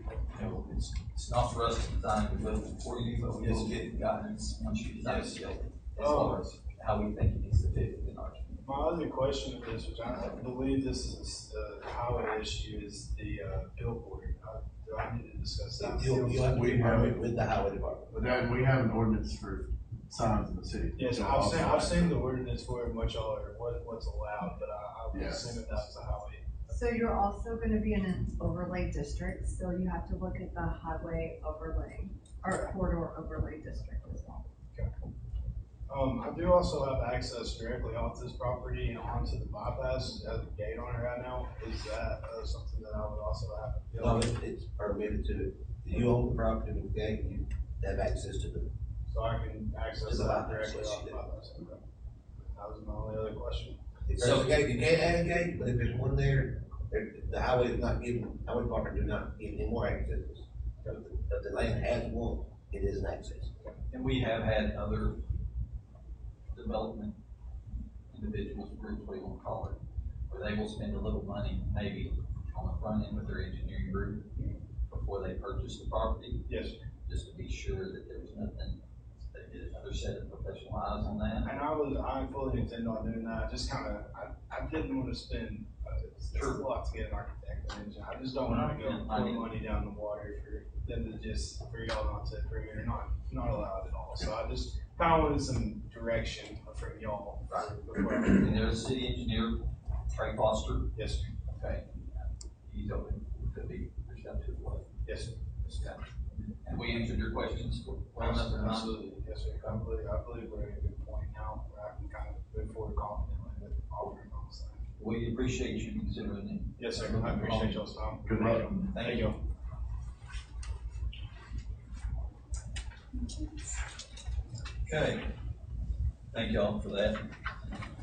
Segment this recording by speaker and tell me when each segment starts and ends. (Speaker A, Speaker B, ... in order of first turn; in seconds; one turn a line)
Speaker A: 0.3-8.9
Speaker B: 3.4-3.9
Speaker B: 5.0-6.5
Speaker B: 8.6-16.9
Speaker C: 15.8-18.3
Speaker D: 16.5-17.2
Speaker D: 18.1-22.1
Speaker B: 21.0-26.8
Speaker D: 25.1-25.9
Speaker E: 26.7-34.5
Speaker B: 35.9-44.3
Speaker C: 44.0-48.7
Speaker B: 49.1-51.8
Speaker C: 50.1-51.2
Speaker B: 52.5-53.8
Speaker C: 54.1-63.7
Speaker A: 54.2-54.6
Speaker A: 63.9-65.2
Speaker A: 66.5-67.2
Speaker A: 68.1-74.3
Speaker A: 74.9-76.5
Speaker B: 76.5-76.8
Speaker A: 77.1-81.6
Speaker B: 81.4-98.7
Speaker A: 86.3-86.6
Speaker A: 88.4-89.5
Speaker A: 98.2-100.9
Speaker B: 100.9-101.3
Speaker A: 101.5-104.9
Speaker B: 105.0-105.4
Speaker A: 105.6-109.0
Speaker B: 108.2-114.8
Speaker A: 115.0-117.8
Speaker B: 116.8-119.4
Speaker D: 118.2-118.9
Speaker A: 118.9-119.3
Speaker A: 124.9-125.3
Speaker A: 126.3-127.2